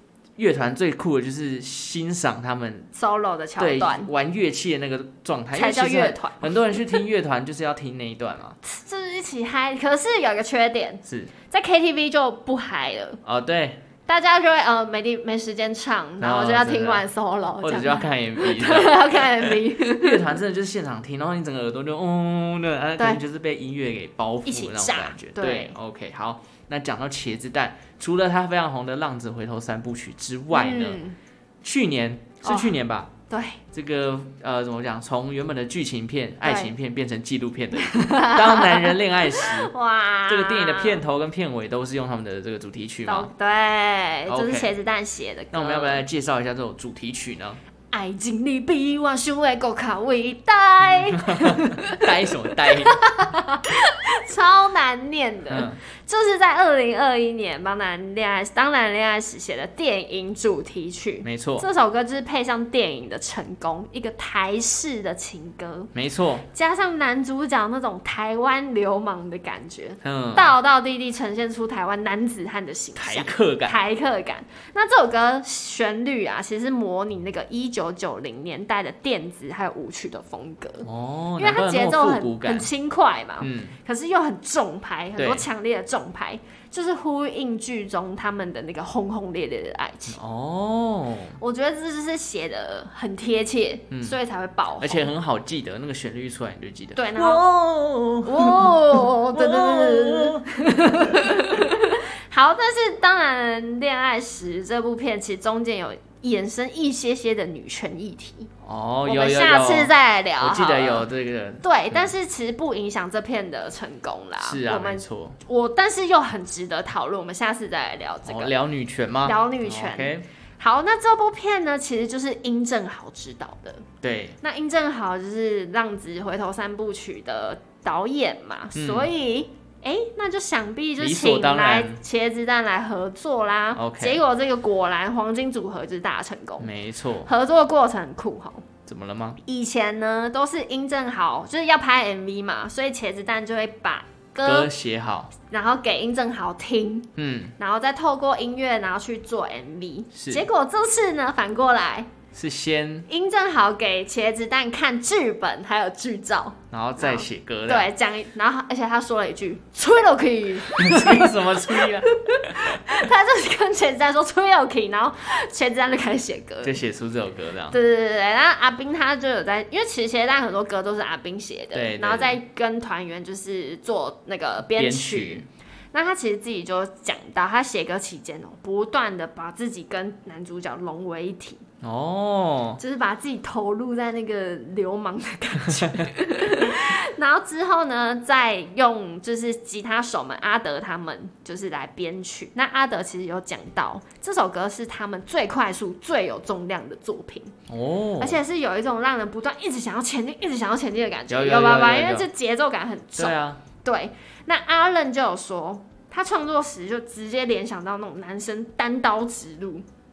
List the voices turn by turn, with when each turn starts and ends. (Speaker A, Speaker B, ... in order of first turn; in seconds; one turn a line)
Speaker A: 0.4-2.9
Speaker B: 2.9-4.1
Speaker A: 3.6-8.6
Speaker B: 5.5-7.0
Speaker B: 8.6-13.2
Speaker A: 11.1-11.3
Speaker A: 13.2-13.8
Speaker B: 14.1-20.4
Speaker A: 16.2-17.1
Speaker A: 17.6-31.0
Speaker B: 24.4-25.8
Speaker B: 30.5-31.2
Speaker A: 31.6-33.1
Speaker B: 32.4-33.6
Speaker A: 33.7-39.7
Speaker B: 36.4-36.7
Speaker B: 37.8-41.0
Speaker A: 40.3-43.3
Speaker B: 43.0-46.0
Speaker A: 44.3-44.7
Speaker A: 45.5-47.6
Speaker B: 47.9-65.9
Speaker A: 50.9-53.0
Speaker A: 55.5-55.8
Speaker A: 61.2-61.7
Speaker A: 65.9-66.4
Speaker B: 66.5-90.2
Speaker A: 70.0-70.5
Speaker A: 73.0-73.8
Speaker A: 80.8-82.7
Speaker A: 83.4-83.8
Speaker A: 85.2-85.5
Speaker A: 90.1-91.4
Speaker B: 91.4-95.1
Speaker A: 93.9-94.2
Speaker A: 94.8-101.6
Speaker B: 97.0-97.5
Speaker B: 98.2-108.5
Speaker A: 108.6-112.0
Speaker B: 109.0-111.1
Speaker B: 111.6-118.5
Speaker A: 114.4-115.4
Speaker A: 118.2-120.2
Speaker B: 119.2-123.8
Speaker A: 124.0-124.4
Speaker B: 124.4-136.7
Speaker A: 128.7-129.1
Speaker A: 131.0-132.0
Speaker A: 133.7-134.2
Speaker A: 136.6-137.3
Speaker B: 137.2-138.7
Speaker A: 138.8-139.4
Speaker B: 139.4-144.7
Speaker A: 144.4-145.3
Speaker B: 145.4-152.1
Speaker A: 147.2-147.5
Speaker A: 150.1-150.4
Speaker A: 152.3-153.1
Speaker B: 153.1-166.8
Speaker A: 156.7-157.9
Speaker A: 160.7-163.0
Speaker A: 166.6-167.8
Speaker B: 167.7-181.6
Speaker A: 171.7-172.4
Speaker A: 174.6-175.5
Speaker A: 181.8-182.8
Speaker B: 182.8-197.5
Speaker A: 197.7-198.4
Speaker B: 198.2-209.8
Speaker A: 201.3-202.3
Speaker A: 203.1-203.6